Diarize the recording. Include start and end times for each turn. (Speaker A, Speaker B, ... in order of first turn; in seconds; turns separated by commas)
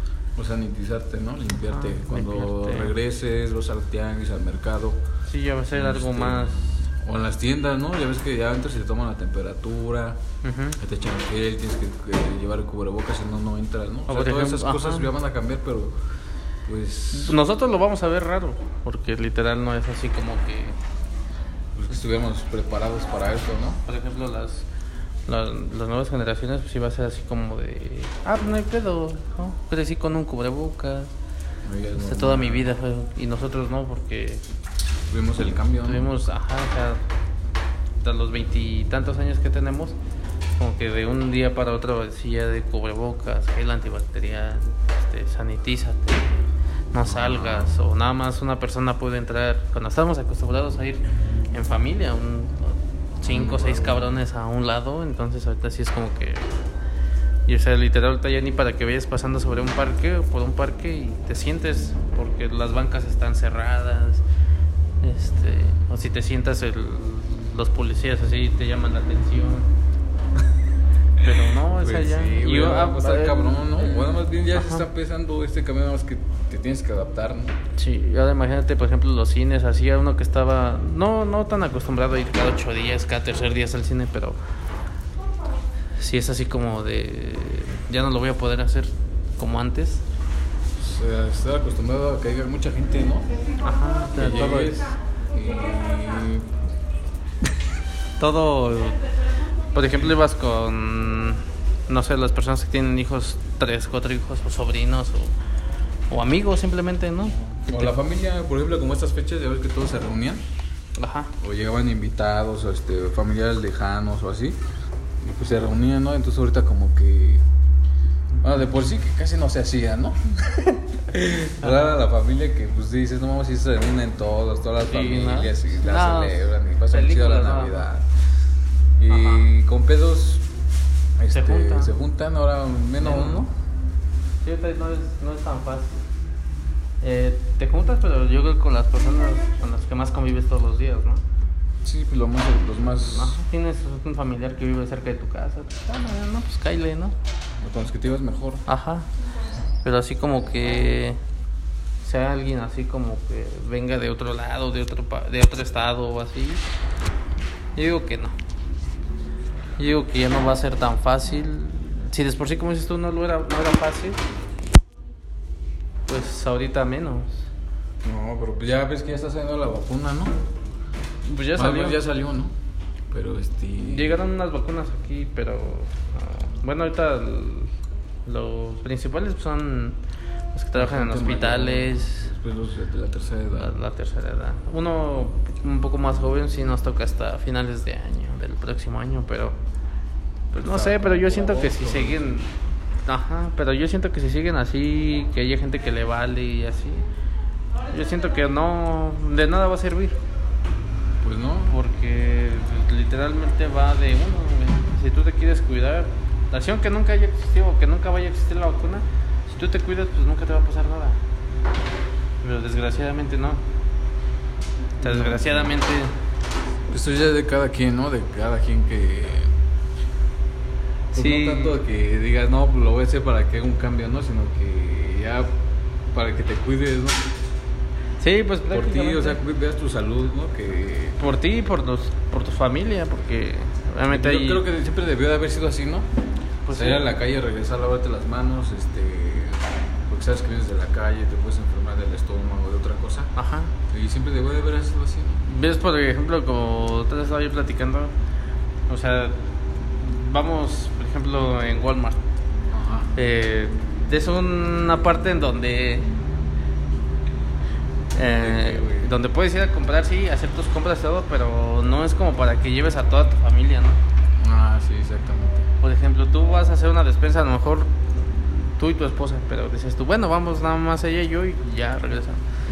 Speaker A: 0.3-5.0, Speaker B: 1.7-2.9, Speaker B: 5.3-6.8, Speaker A: 5.7-10.2, Speaker B: 10.4-10.8, Speaker A: 10.8-15.9, Speaker B: 14.1-15.1, Speaker A: 16.6-17.4, Speaker B: 17.1-20.8, Speaker A: 21.7-23.8, Speaker B: 23.9-24.6, Speaker B: 25.3-31.1, Speaker A: 31.6-32.7, Speaker B: 31.9-34.4, Speaker A: 35.1-36.1, Speaker B: 35.8-37.0, Speaker B: 38.0-40.0, Speaker B: 40.6-56.5, Speaker A: 47.1-47.8, Speaker A: 53.2-54.2, Speaker B: 57.5-64.2, Speaker B: 65.0-69.7, Speaker B: 71.2-74.8, Speaker A: 71.7-77.5, Speaker B: 77.8-84.4, Speaker B: 86.0-90.0, Speaker A: 90.8-93.3, Speaker B: 93.6-94.8, Speaker A: 94.1-96.5, Speaker B: 98.2-99.0, Speaker B: 99.7-105.3, Speaker B: 106.1-108.0, Speaker A: 107.4-110.4, Speaker B: 111.0-111.3, Speaker A: 111.4-114.6, Speaker A: 115.2-117.4, Speaker A: 118.4-128.1, Speaker B: 121.6-121.9, Speaker B: 124.8-127.9, Speaker A: 129.0-130.4, Speaker B: 129.1-129.4, Speaker A: 131.2-133.5, Speaker B: 131.3-131.9, Speaker B: 133.0-133.5, Speaker B: 134.4-136.0, Speaker B: 137.0-141.2, Speaker A: 141.8-143.4, Speaker B: 142.9-147.1, Speaker A: 147.6-148.6, Speaker B: 148.7-149.1, Speaker B: 149.8-151.2, Speaker B: 152.0-156.6, Speaker B: 157.8-158.3, Speaker B: 159.8-164.2, Speaker B: 166.1-167.4, Speaker A: 168.0-170.3, Speaker B: 171.2-172.0, Speaker A: 171.5-172.5, Speaker A: 173.1-174.2, Speaker B: 173.8-177.7, Speaker B: 178.2-180.0, Speaker B: 180.5-182.3, Speaker A: 180.7-183.8, Speaker B: 183.5-189.5, Speaker B: 190.5-197.1, Speaker A: 190.6-192.3, Speaker B: 197.9-200.2, Speaker A: 201.2-201.8, Speaker B: 201.7-211.2, Speaker B: 212.4-213.6, Speaker A: 215.0-215.7, Speaker B: 215.0-216.1, Speaker A: 216.9-219.5, Speaker A: 221.1-225.5, Speaker B: 221.1-221.8, Speaker A: 226.1-227.3, Speaker B: 228.2-229.4, Speaker A: 228.7-231.2, Speaker B: 231.2-234.6, Speaker A: 234.1-236.1, Speaker B: 236.7-237.0, Speaker A: 236.7-243.3, Speaker B: 243.3-243.7, Speaker A: 243.9-245.4, Speaker B: 245.4-248.1, Speaker B: 248.9-249.4, Speaker B: 250.0-252.2, Speaker A: 252.7-253.1, Speaker B: 253.2-256.1, Speaker B: 258.1-264.0, Speaker A: 258.4-259.1, Speaker A: 264.4-265.7, Speaker B: 265.8-272.4